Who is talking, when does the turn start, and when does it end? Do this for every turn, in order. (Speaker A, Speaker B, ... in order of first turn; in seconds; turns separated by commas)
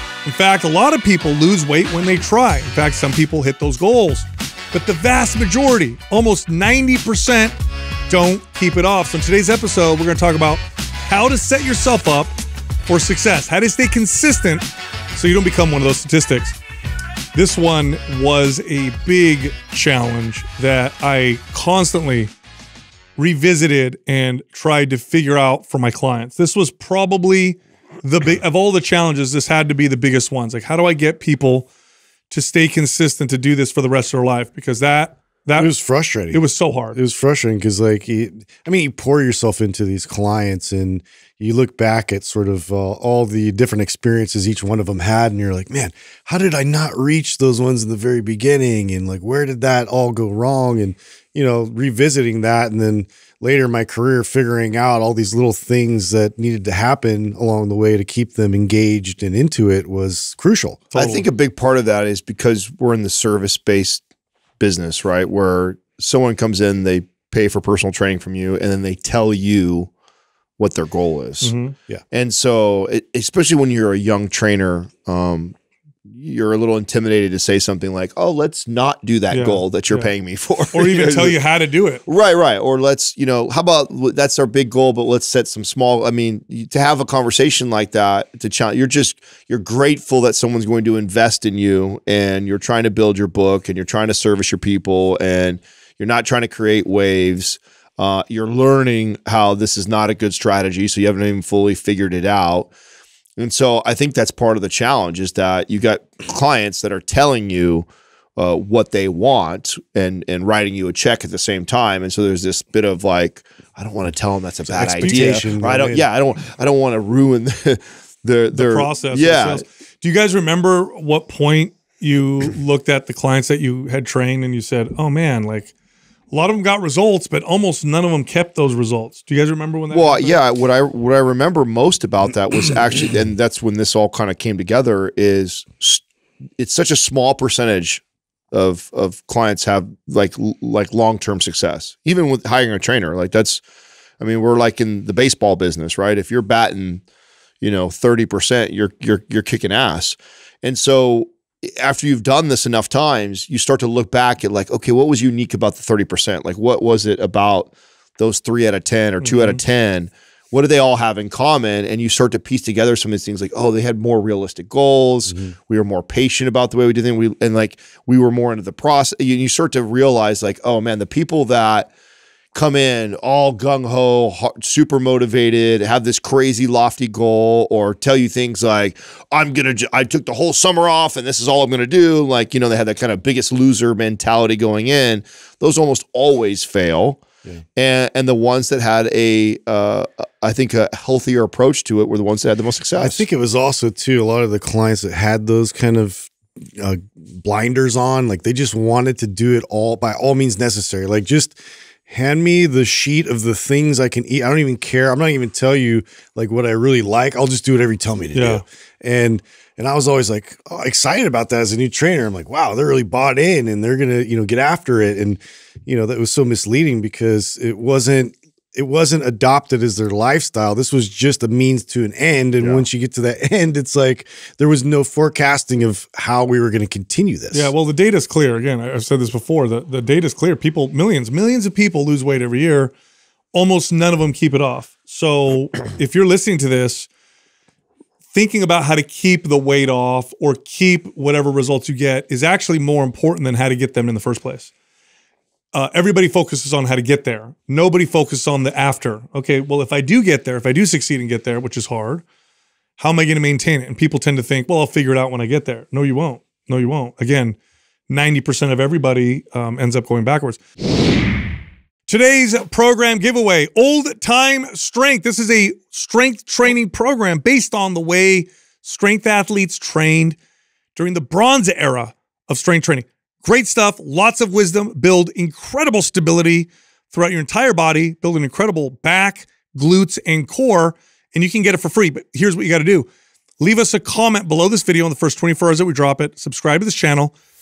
Speaker A: 0.2-7.5, Speaker A: 8.1-12.3, Speaker A: 12.9-16.6, Speaker A: 17.3-22.3, Speaker A: 23.2-31.7, Speaker A: 32.3-35.7, Speaker B: 35.6-36.4, Speaker A: 36.3-37.0, Speaker B: 36.9-60.9, Speaker A: 60.9-61.3, Speaker C: 61.0-64.0, Speaker C: 64.6-69.9, Speaker C: 70.6-71.5, Speaker A: 71.4-71.8, Speaker C: 72.1-75.5, Speaker C: 76.1-81.4, Speaker A: 79.3-80.1, Speaker A: 80.7-82.0, Speaker C: 82.1-102.7, Speaker C: 103.4-107.9, Speaker C: 108.4-119.7, Speaker B: 114.7-116.1, Speaker A: 114.8-115.3, Speaker A: 118.5-125.7, Speaker A: 126.3-130.4, Speaker C: 129.9-136.0, Speaker C: 136.6-143.6, Speaker C: 144.2-147.0, Speaker C: 147.6-171.9, Speaker A: 159.2-159.6, Speaker C: 172.5-187.2, Speaker C: 187.8-193.2, Speaker B: 193.0-227.7, Speaker A: 208.3-208.6, Speaker C: 222.6-222.9, Speaker A: 227.5-232.9, Speaker A: 233.5-237.1, Speaker A: 238.3-244.7, Speaker A: 245.7-252.2, Speaker A: 253.0-257.6, Speaker A: 258.1-260.6, Speaker A: 262.1-270.4, Speaker A: 271.0-283.1, Speaker A: 283.6-287.3